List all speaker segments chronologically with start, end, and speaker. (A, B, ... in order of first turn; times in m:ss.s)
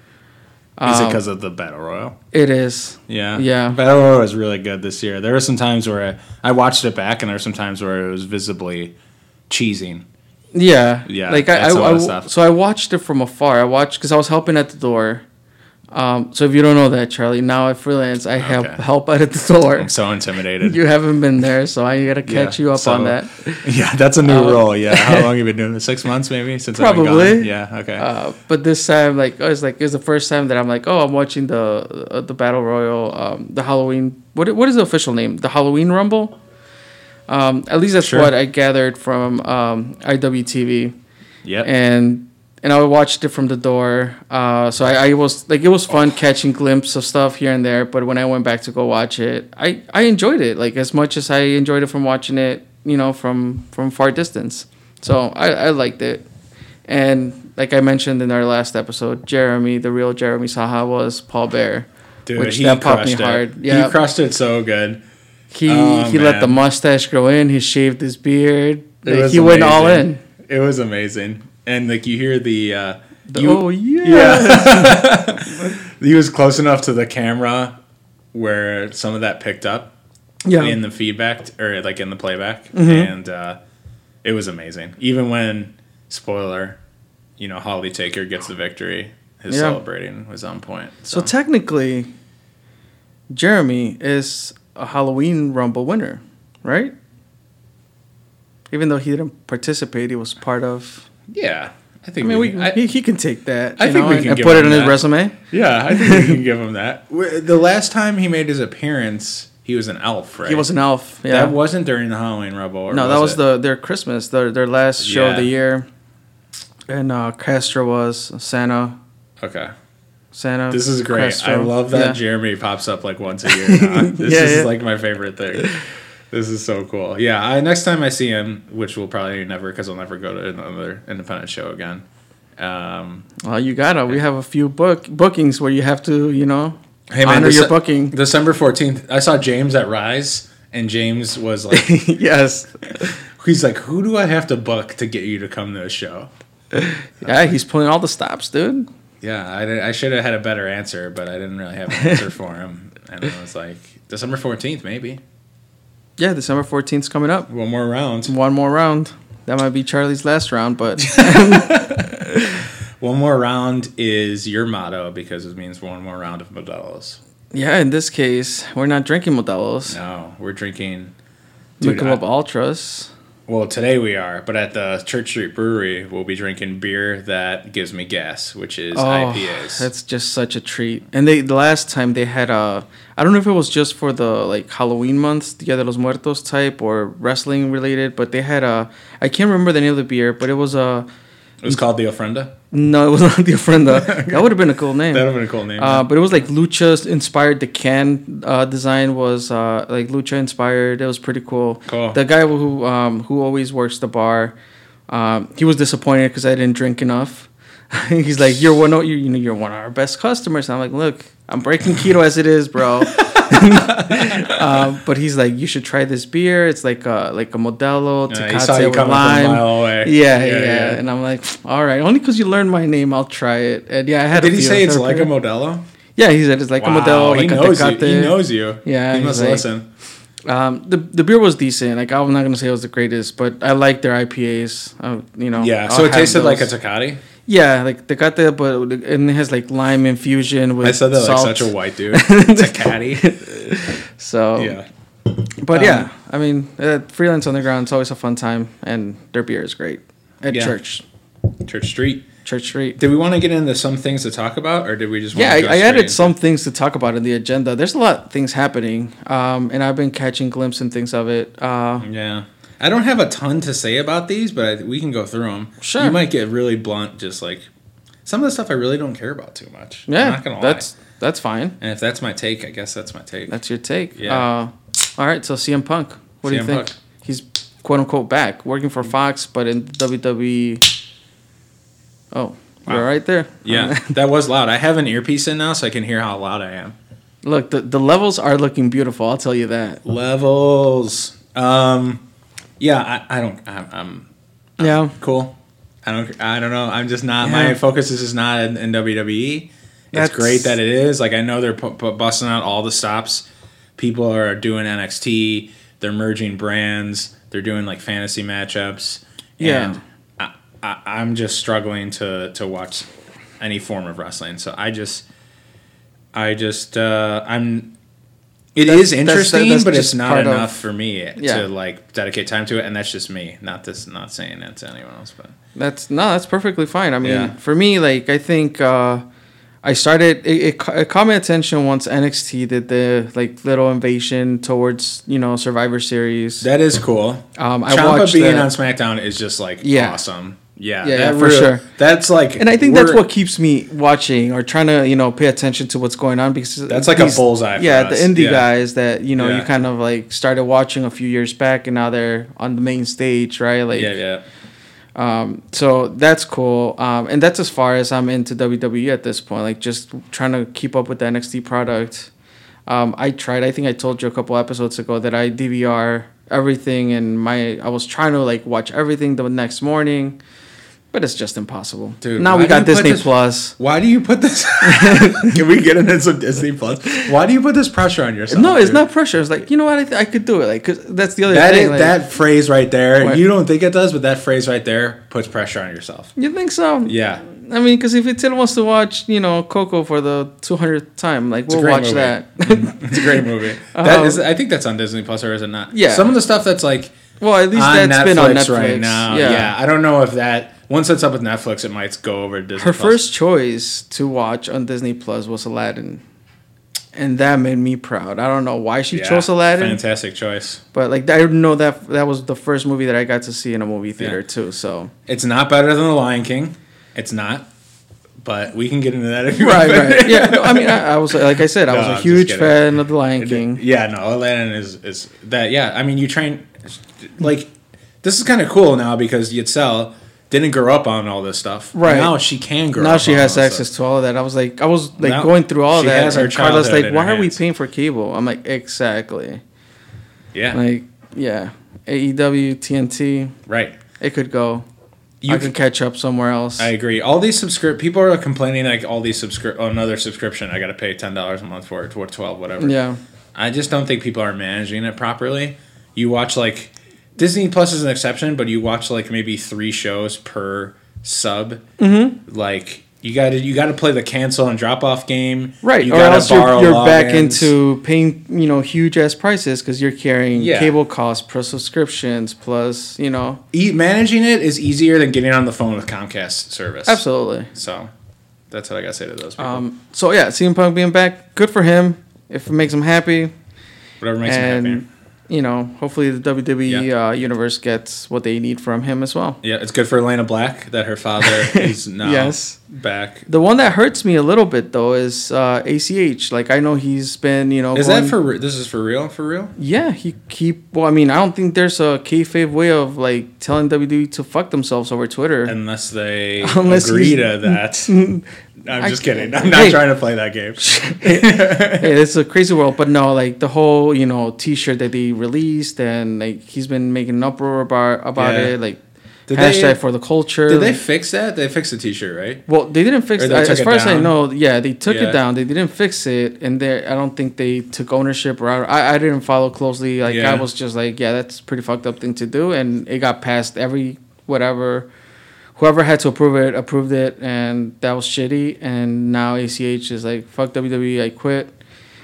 0:00.8-0:01.2 A
0:00.8-0:02.2 B
0:02.3-0:03.8 A
0:03.1-0:09.0 B
0:09.5-0:10.1 B
0:10.5-0:15.2 A
0:11.1-0:12.3 B
0:15.9-0:19.9 A
0:18.4-0:18.8 B
0:19.8-0:20.8 B
0:20.6-0:23.7 A
0:22.3-0:28.1 B
0:24.2-0:25.3 A
0:26.8-0:36.4 A
0:37.3-0:40.9 A
0:38.0-0:38.3 B
0:41.4-0:41.7 B
0:41.6-0:56.2 A
0:56.9-1:04.0 A
1:02.3-1:05.0 B
1:05.5-1:10.2 A
1:05.7-1:06.6 B
1:09.0-1:17.8 B
1:13.3-1:15.8 A
1:18.3-1:19.9 B
1:20.4-1:20.8 A
1:20.6-1:23.6 B
1:22.7-1:23.1 A
1:24.2-1:26.8 B
1:27.4-1:31.3 B
1:29.5-1:29.8 A
1:31.1-1:32.1 A
1:33.3-1:36.9 A
1:38.7-1:41.1 A
1:41.3-1:42.8 B
1:42.2-1:45.4 A
1:43.8-1:45.0 B
1:45.5-1:50.7 B
1:45.9-1:46.4 A
1:50.4-1:51.6 A
1:51.3-1:53.4 B
1:52.9-1:55.9 A
1:55.0-1:55.5 B
1:56.9-1:59.0 A
1:59.4-1:59.7 B
2:00.3-2:02.2 A
2:00.7-2:05.7 B
2:03.5-2:04.7 A
2:06.3-2:12.0 B
2:12.6-2:13.3 B
2:13.4-2:18.2 A
2:17.1-2:22.0 B
2:21.7-2:23.2 A
2:23.4-2:26.3 B
2:26.7-2:28.9 A
2:29.2-2:35.2 B
2:36.2-2:37.5 A
2:37.5-2:38.3 B
2:38.3-2:42.6 A
2:41.0-2:42.3 B
2:43.0-2:47.2 B
2:47.5-2:50.0 A
2:49.9-2:51.1 B
2:51.8-2:52.2 B
2:51.8-2:53.1 A
2:53.5-2:59.9 B
2:58.9-3:11.1 A
3:11.6-3:12.5 B
3:12.7-3:24.6 A
3:13.9-3:14.5 B
3:15.1-3:16.1 B
3:21.9-3:22.2 B
3:25.1-3:45.3 A
3:33.2-3:34.7 B
3:38.3-3:41.0 B
3:44.3-3:45.9 B
3:46.2-3:49.7 A
3:46.8-3:49.9 B
3:50.5-3:56.7 A
3:55.6-3:57.2 B
3:57.5-4:04.8 A
4:00.8-4:03.3 B
4:04.6-4:04.9 B
4:05.6-4:11.0 A
4:05.7-4:06.1 B
4:10.5-4:10.8 B
4:11.6-4:12.3 B
4:12.4-4:13.0 A
4:13.0-4:16.3 B
4:15.3-4:22.1 A
4:22.0-4:27.7 B
4:25.8-4:26.2 A
4:28.3-4:30.9 B
4:30.1-4:31.8 A
4:31.8-4:33.6 B
4:33.5-4:40.9 A
4:34.2-4:34.5 B
4:36.5-4:36.9 B
4:42.3-4:44.2 A
4:43.6-4:47.0 B
4:47.4-4:50.0 A
4:50.0-4:52.2 B
4:52.8-5:13.1 B
4:54.8-4:55.2 A
4:57.4-4:57.8 A
5:00.1-5:00.8 A
5:09.6-5:10.0 A
5:13.6-5:15.3 B
5:16.3-5:17.9 B
5:18.8-5:25.6 B
5:18.8-5:20.8 A
5:21.4-5:21.7 A
5:25.8-5:29.2 A
5:27.2-5:27.5 B
5:29.8-5:36.7 A
5:36.6-5:43.2 B
5:37.6-5:38.7 A
5:39.8-5:40.2 A
5:41.0-5:41.9 A
5:42.6-5:54.2 A
5:46.9-5:48.7 B
5:49.4-5:49.7 B
5:53.9-5:54.4 B
5:55.2-6:02.3 A
6:02.9-6:10.4 A
6:11.1-6:13.8 A
6:12.2-6:19.0 B
6:14.8-6:15.6 A
6:18.5-6:22.2 A
6:21.5-6:26.3 B
6:26.4-6:34.4 A
6:27.1-6:27.4 B
6:31.7-6:37.2 B
6:35.9-6:36.3 A
6:37.4-6:39.7 A
6:37.7-6:43.2 B
6:42.8-6:46.2 A
6:47.2-6:50.0 A
6:49.1-6:50.8 B
6:50.9-6:55.1 A
6:55.3-6:57.7 B
6:58.4-7:07.7 B
6:59.5-7:03.8 A
7:08.2-7:13.9 B
7:11.9-7:12.4 A
7:13.0-7:19.6 A
7:15.2-7:17.6 B
7:20.5-7:20.8 B
7:20.7-7:23.6 A
7:23.7-7:24.0 B
7:24.2-7:24.8 A
7:25.4-7:25.7 B
7:25.5-7:26.9 A
7:26.8-7:33.0 B
7:32.8-7:33.2 A
7:33.6-7:41.8 B
7:42.0-7:42.4 A
7:42.5-7:47.7 B
7:45.8-7:53.6 A
7:50.6-7:51.0 B
7:53.7-7:58.1 B
7:57.1-7:57.7 A
7:58.7-7:59.8 B
7:59.6-8:03.5 A
8:04.2-8:05.0 B
8:04.4-8:09.6 A
8:09.6-8:13.5 B
8:11.4-8:12.8 A
8:13.5-8:18.4 A
8:17.9-8:19.8 B
8:19.8-8:25.8 A
8:25.7-8:28.2 B
8:26.6-8:30.0 A
8:28.8-8:32.2 B
8:30.8-8:39.0 A
8:38.4-8:38.8 B
8:39.5-8:40.0 B
8:39.5-8:41.0 A
8:40.7-8:42.6 B
8:42.7-8:55.1 A
8:43.4-8:44.4 B
8:45.1-8:45.4 B
8:50.2-8:50.6 B
8:55.8-9:01.8 A